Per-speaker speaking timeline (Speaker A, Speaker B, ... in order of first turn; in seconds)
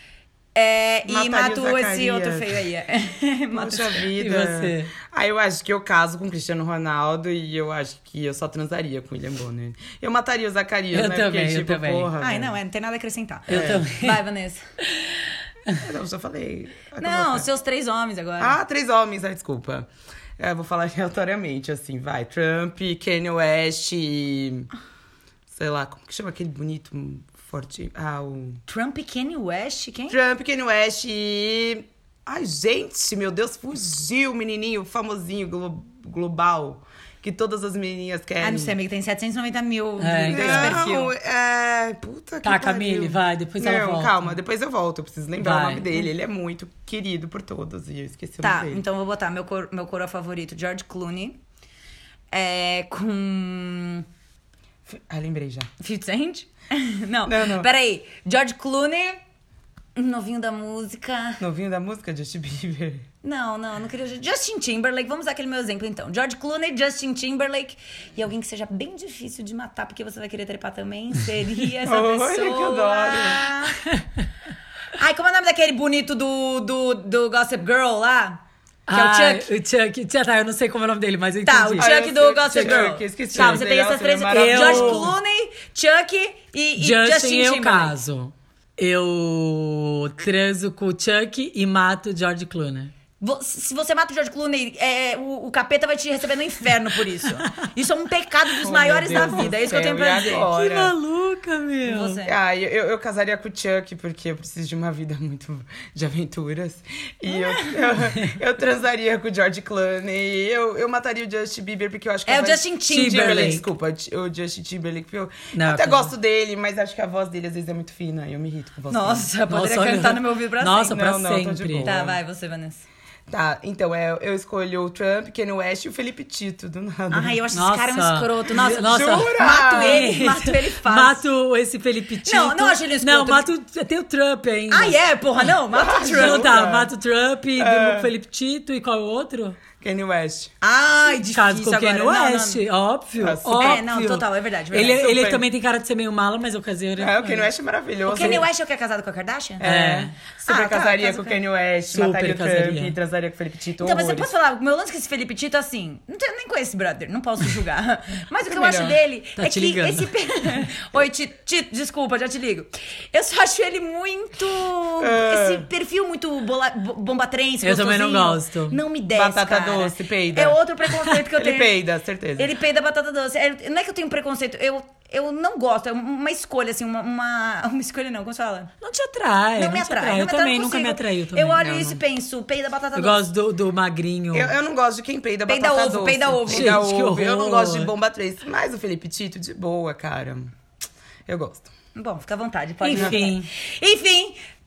Speaker A: 0.6-4.0, 12.2-14.6, 17.0-18.6, 28.7-30.2, 38.4-41.1, 48.4-51.4, 52.3-54.1, 55.8-59.2, 60.0-61.4, 63.2-73.9, 75.0-78.4, 78.9-79.5, 81.5-88.0, 93.2-100.5, 101.8-102.3, 107.3-107.8, 112.3-113.6, 118.9-121.0, 121.8-122.8, 127.1-131.2, 132.3-133.5, 134.7-136.5, 140.6-142.6, 143.6-145.1, 148.1-149.7, 150.5-151.4, 153.8-171.8, 172.4-178.7, 179.6-183.3, 185.5-186.8, 192.0-194.4
Speaker B: 1.1-2.6, 3.5-12.5, 13.5-13.8, 15.8-17.5, 18.4-24.7, 25.5-28.6, 30.1-38.7, 40.3-48.8, 54.9-55.7, 57.3-57.7, 61.4-63.1, 71.8-73.5, 81.8-85.1, 98.6-100.9, 102.2-119.3, 120.9-122.2, 123.3-127.4, 128.6-130.1, 135.7-136.9, 137.6-138.1, 139.8-140.5, 143.2-143.8, 144.9-145.4, 147.0-148.5, 149.6-154.3, 158.5-159.0, 165.0-165.7, 169.1-172.5, 181.6-182.0, 184.3-190.5, 191.3-191.7, 192.9-193.2
Speaker C: 4.2-4.9, 10.9-12.1, 13.5-14.2, 14.8-15.8, 40.0-40.8, 42.4-44.1, 45.4-46.1, 78.9-81.9, 82.6-83.7, 84.3-85.2, 86.8-92.9, 100.3-102.2, 112.9-113.6, 115.5-116.1, 119.5-121.9, 127.5-135.5, 136.1-139.6, 141.1-147.5, 148.2-148.5, 149.6-150.2, 151.9-152.9, 159.4-160.7, 167.6-168.8, 178.8-181.6, 182.9-184.5, 186.5-187.9, 192.8-193.5